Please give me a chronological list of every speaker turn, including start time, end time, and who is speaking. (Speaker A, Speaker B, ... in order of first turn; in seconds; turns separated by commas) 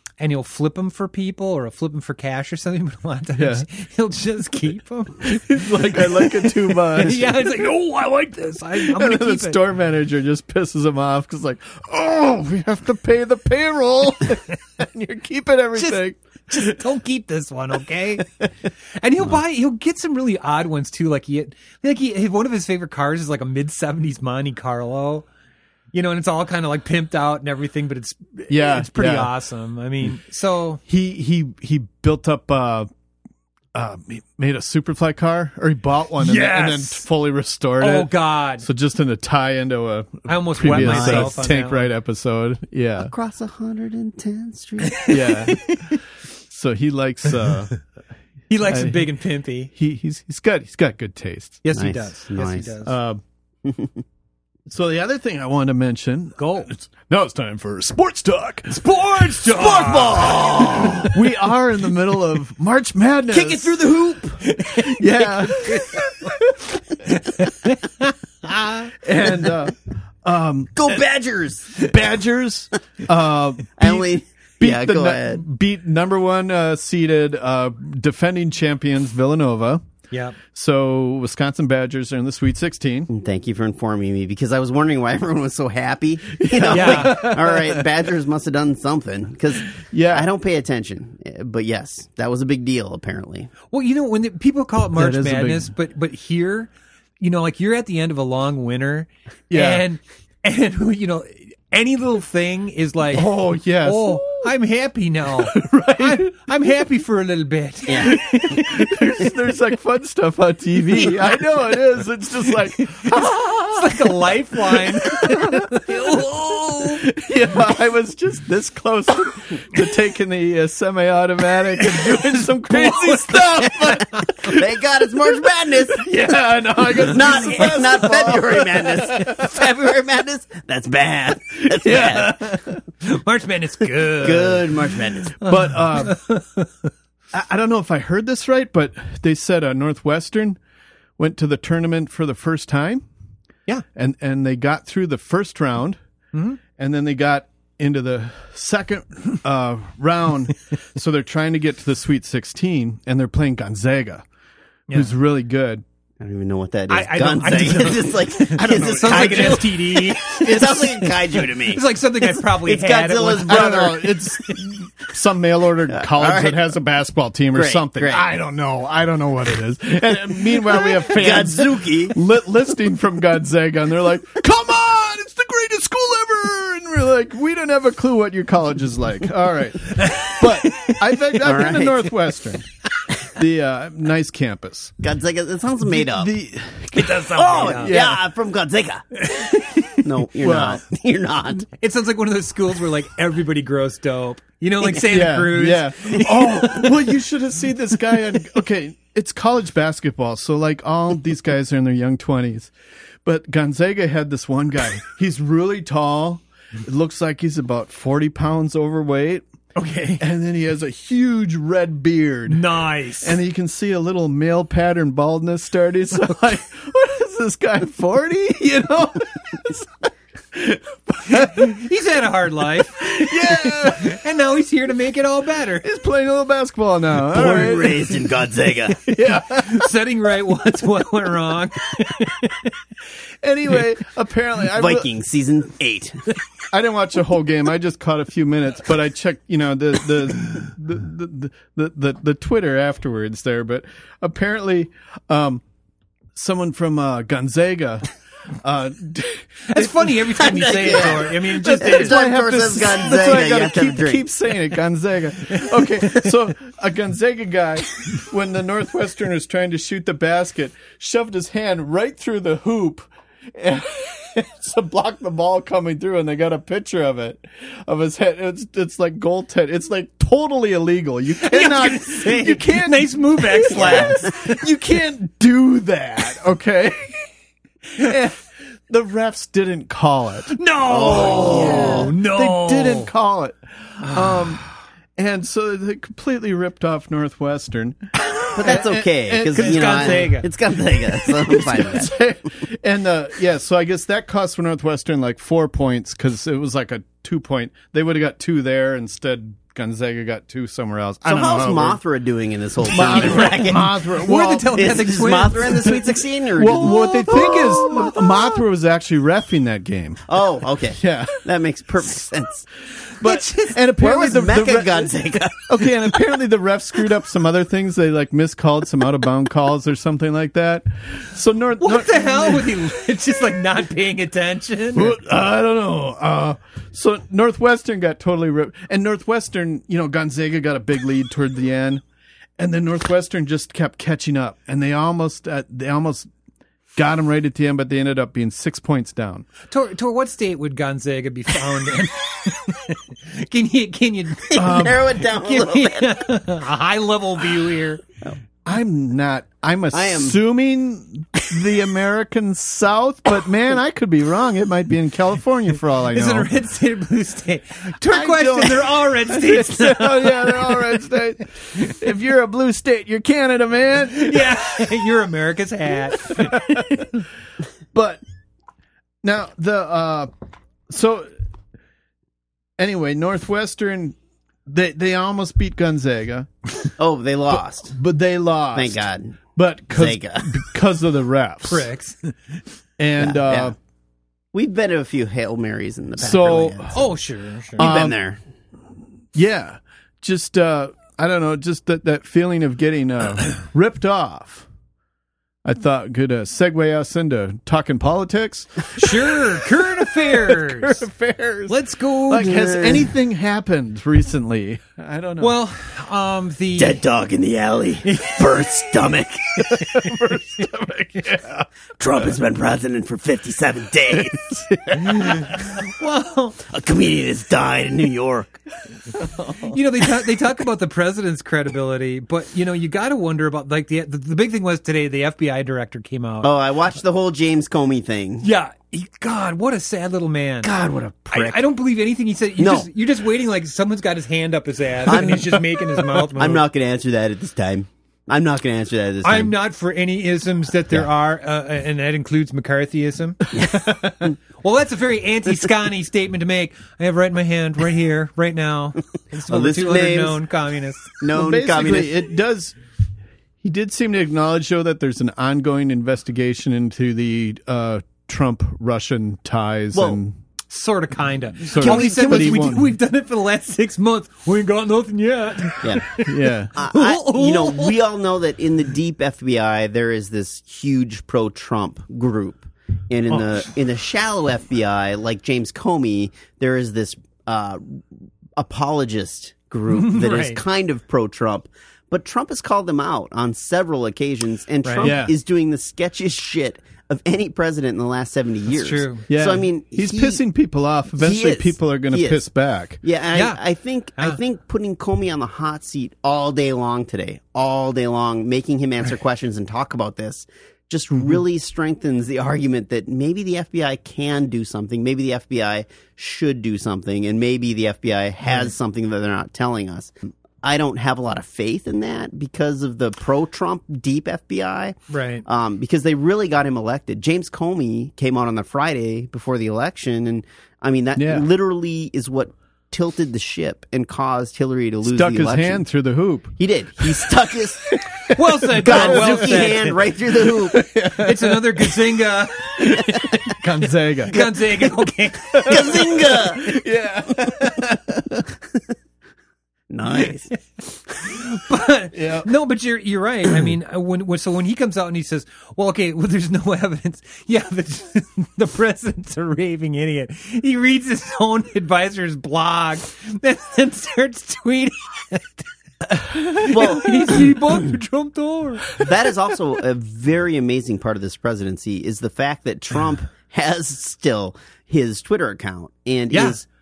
Speaker A: 0.2-9.6, Speaker B: 3.4-3.7, Speaker B: 5.2-7.7, Speaker B: 8.7-16.8, Speaker A: 15.8-18.3, Speaker A: 19.0-25.3, Speaker A: 25.9-30.8, Speaker B: 28.5-29.3, Speaker B: 30.9-32.9, Speaker B: 33.8-43.1, Speaker A: 36.2-37.0, Speaker A: 37.8-38.7, Speaker A: 40.3-41.9, Speaker C: 40.7-41.4, Speaker C: 43.0-45.1, Speaker A: 44.9-46.0, Speaker B: 45.1-47.8, Speaker A: 48.5-49.7, Speaker B: 48.6-49.1, Speaker B: 49.7-51.6, Speaker A: 51.6-53.0, Speaker C: 51.7-52.7, Speaker B: 52.8-53.2, Speaker C: 53.6-54.0, Speaker B: 54.7-58.8, Speaker A: 56.4-56.7, Speaker A: 58.7-61.1, Speaker C: 59.5-61.1, Speaker B: 61.0-63.9, Speaker C: 63.3-64.5, Speaker A: 64.5-65.0, Speaker B: 64.7-66.7, Speaker A: 65.5-66.3, Speaker A: 67.1-68.9, Speaker B: 69.0-71.0, Speaker C: 70.8-71.9, Speaker B: 71.8-79.8, Speaker C: 73.8-75.4, Speaker A: 80.1-80.4, Speaker B: 80.5-83.1, Speaker C: 83.1-93.5, Speaker B: 86.4-87.8, Speaker A: 86.7-87.3, Speaker B: 89.8-90.3, Speaker A: 93.7-109.3, Speaker B: 95.0-95.7, Speaker B: 99.5-99.8, Speaker B: 103.1-104.5, Speaker B: 105.4-106.3, Speaker C: 107.9-108.2, Speaker B: 108.0-124.7, Speaker A: 112.8-113.2, Speaker A: 113.7-117.0, Speaker A: 121.9-124.5, Speaker C: 124.5-126.1, Speaker B: 125.9-129.7, Speaker C: 127.0-132.5, Speaker B: 131.6-132.8, Speaker A: 133.0-134.8, Speaker C: 134.2-135.4, Speaker B: 135.4-136.2, Speaker A: 135.5-136.7, Speaker B: 137.3-140.6, Speaker B: 141.2-143.0, Speaker B: 143.9-146.0, Speaker A: 146.3-146.6, Speaker B: 146.8-154.2, Speaker B: 154.9-155.8, Speaker C: 156.2-164.2, Speaker A: 156.9-164.0, Speaker B: 158.6-159.8, Speaker B: 163.4-182.7, Speaker C: 165.9-166.6, Speaker C: 167.5-168.2, Speaker C: 171.1-172.2, Speaker A: 179.9-181.0, Speaker C: 181.4-182.1, Speaker B: 183.3-184.9, Speaker C: 185.0-186.3, Speaker B: 185.8-188.2, Speaker A: 186.9-188.0, Speaker C: 187.3-189.2, Speaker A: 189.2-190.0, Speaker C: 190.0-191.7, Speaker B: 190.4-190.8, Speaker A: 191.8-196.9, Speaker B: 195.1-202.7, Speaker B: 203.2-209.5, Speaker A: 209.8-210.2, Speaker B: 210.2-212.6, Speaker A: 212.5-213.4, Speaker B: 213.2-219.9, Speaker B: 220.5-221.8, Speaker A: 221.3-225.8, Speaker B: 223.0-224.2, Speaker B: 225.8-228.2, Speaker C: 227.3-229.0, Speaker A: 229.1-232.7, Speaker B: 229.1-229.9, Speaker B: 233.4-235.1, Speaker C: 234.7-236.3, Speaker B: 236.7-245.6, Speaker B: 246.3-277.2, Speaker A: 249.7-252.2, Speaker C: 250.4-254.3, Speaker A: 271.4-274.4, Speaker C: 273.7-274.3, Speaker B: 277.9-284.6, Speaker A: 280.5-283.1, Speaker C: 280.9-282.1, Speaker A: 284.1-284.4, Speaker B: 285.2-290.3, Speaker A: 288.2-288.8, Speaker C: 288.6-292.2, Speaker A: 289.5-290.5, Speaker B: 291.2-302.0, Speaker C: 301.2-304.0, Speaker B: 302.9-304.8, Speaker A: 304.2-306.1, Speaker C: 304.7-308.1, Speaker B: 306.6-310.2, Speaker A: 306.8-308.0, Speaker C: 310.3-312.7, Speaker B: 311.0-311.4, Speaker B: 313.2-322.7, Speaker A: 313.2-313.8, Speaker C: 314.0-316.1, Speaker A: 321.8-325.2, Speaker B: 324.9-332.0, Speaker B: 332.6-336.3, Speaker B: 337.0-339.5, Speaker A: 339.7-348.0, Speaker C: 344.5-346.3, Speaker B: 344.6-345.1, Speaker B: 348.6-356.5, Speaker C: 349.9-350.4, Speaker A: 356.1-360.9, Speaker B: 358.0-364.8, Speaker A: 364.1-367.2, Speaker B: 366.2-367.1, Speaker B: 367.9-368.2, Speaker B: 369.2-370.3, Speaker B: 370.9-371.3, Speaker B: 372.8-376.5, Speaker C: 377.0-378.0, Speaker B: 377.6-379.0, Speaker C: 378.7-379.4, Speaker B: 379.6-381.9, Speaker C: 379.9-380.6, Speaker A: 381.6-382.6, Speaker B: 383.0-383.8, Speaker C: 383.2-383.7, Speaker C: 384.5-387.0, Speaker B: 386.2-387.0, Speaker A: 386.9-387.9, Speaker C: 387.8-388.4, Speaker B: 387.8-388.2, Speaker B: 389.3-394.7, Speaker B: 395.6-401.8, Speaker A: 399.0-401.0, Speaker A: 401.7-402.6, Speaker B: 402.3-405.6, Speaker C: 402.4-403.1, Speaker A: 405.4-407.0, Speaker C: 406.8-409.7, Speaker A: 408.0-408.7, Speaker B: 409.7-411.7, Speaker C: 412.0-414.6, Speaker B: 414.2-415.3, Speaker C: 415.1-415.5, Speaker A: 415.2-416.6, Speaker C: 416.7-418.6, Speaker B: 419.2-419.8, Speaker A: 419.7-426.5, Speaker C: 426.4-428.5, Speaker A: 428.4-430.7, Speaker C: 430.6-431.6, Speaker A: 431.3-436.6, Speaker C: 432.6-432.9, Speaker C: 435.1-439.6, Speaker A: 439.2-443.5, Speaker B: 443.5-444.2, Speaker A: 444.6-451.1, Speaker C: 449.5-450.4, Speaker C: 451.2-452.2, Speaker B: 451.3-452.8, Speaker B: 453.6-460.4, Speaker C: 459.9-460.2, Speaker A: 460.7-468.0, Speaker B: 461.7-462.9, Speaker C: 461.8-462.7, Speaker C: 465.8-466.1, Speaker B: 466.2-466.7, Speaker C: 466.7-478.1, Speaker C: 478.6-490.4, Speaker A: 479.9-480.6, Speaker A: 484.8-485.2, Speaker B: 485.0-485.3, Speaker A: 488.7-489.3, Speaker B: 489.3-493.0, Speaker C: 491.2-492.4, Speaker C: 493.0-525.8, Speaker A: 493.3-493.6, Speaker A: 515.1-515.5, Speaker B: 521.2-521.5, Speaker B: 525.0-527.3, Speaker C: 526.6-528.0, Speaker B: 527.9-529.7, Speaker A: 528.3-530.0, Speaker C: 528.8-530.8, Speaker B: 530.5-532.1, Speaker A: 531.1-533.6, Speaker B: 532.8-534.5, Speaker A: 534.3-536.2, Speaker B: 535.5-538.5, Speaker C: 535.5-536.8, Speaker C: 539.9-540.5, Speaker A: 541.2-559.1, Speaker B: 542.1-542.5, Speaker C: 556.6-557.5, Speaker C: 559.0-566.7, Speaker A: 566.3-566.6